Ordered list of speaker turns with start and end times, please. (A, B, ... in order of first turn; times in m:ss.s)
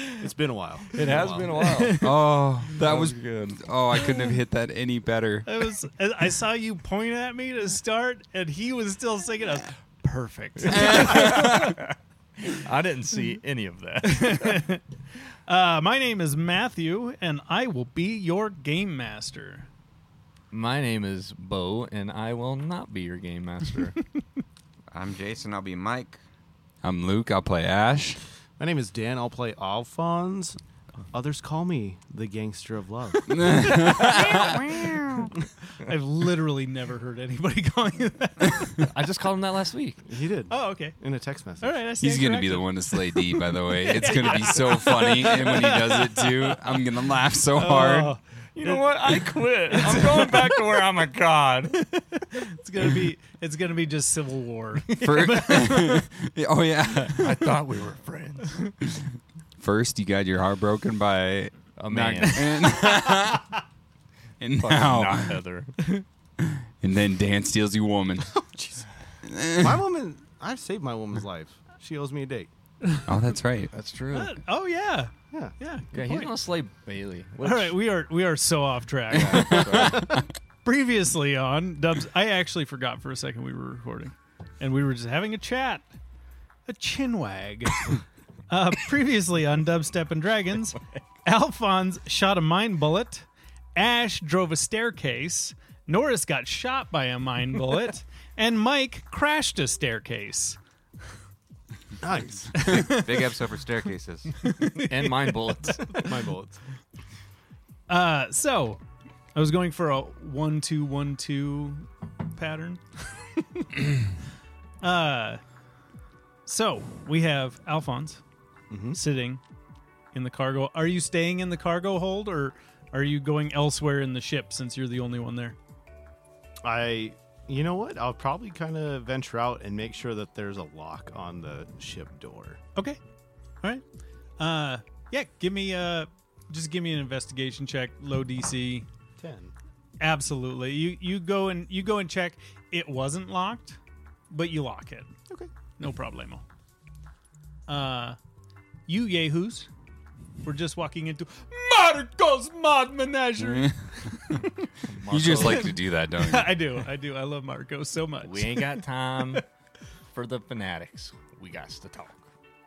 0:00.2-0:01.6 A
0:00.9-0:02.1 B
0:01.5-0:02.1 C
0:02.0-0:05.5 D
0:02.7-0:03.6 B
0:05.4-0:11.7 C
0:10.6-0:11.7 B
0:10.7-0:11.8 D
0:12.4-0:14.6 B
0:14.0-0:14.8 C
0:15.5-0:19.7 C
0:20.5-0:24.0 B
0:24.9-0:26.2 E
0:26.8-0:28.2 D
0:28.6-0:30.6 A
0:31.1-0:33.3 A
0:33.3-0:34.8 D
0:33.4-0:38.8 C
0:38.8-0:40.0 B
0:40.0-0:41.8 A
0:40.5-0:41.0 C
0:41.6-0:46.6 C
0:42.0-0:48.1 D
0:47.6-0:49.0 C
0:47.7-0:51.8 B
0:49.6-0:50.8 C
0:51.8-0:56.1 C
0:55.0-0:57.3 D
0:57.1-0:58.6 B
0:58.8-1:03.5 D
1:01.8-1:02.5 B
1:02.4-1:03.4 C
1:04.4-1:05.4 D
1:04.6-1:05.7 B
1:06.4-1:08.3 D
1:08.4-1:08.8 A
1:09.2-1:09.8 D
1:09.6-1:12.5 A
1:13.0-1:13.7 D
1:13.7-1:14.4 B
1:14.1-1:16.3 C
1:15.9-1:17.8 B
1:17.4-1:20.0 C
1:19.1-1:20.1 B
1:19.2-1:20.2 D
1:19.7-1:20.1 A
1:20.6-1:25.9 C
1:26.7-1:27.9 C
1:28.5-1:40.6 C
1:42.0-1:42.9 A
1:42.5-1:43.2 C
1:42.7-1:44.3 E
1:44.4-1:46.0 C
1:44.8-1:46.0 B
1:45.9-1:46.6 A
1:47.9-1:48.8 C
1:49.3-1:54.0 C
1:54.8-1:55.4 C
1:56.4-1:58.2 C
1:58.7-1:59.0 A
1:58.9-1:59.4 C
2:00.1-2:05.6 C
2:06.6-2:12.6 A
2:14.4-2:18.9 C
2:19.2-2:19.5 A
2:20.0-2:23.8 C
2:24.3-2:25.1 C
2:25.8-2:26.4 C
2:27.7-2:28.2 C
2:28.9-2:29.7 C
2:30.4-2:34.7 C
2:34.8-2:35.7 B
2:35.1-2:36.6 D
2:35.3-2:39.4 C
2:38.2-2:39.4 B
2:40.1-2:42.2 B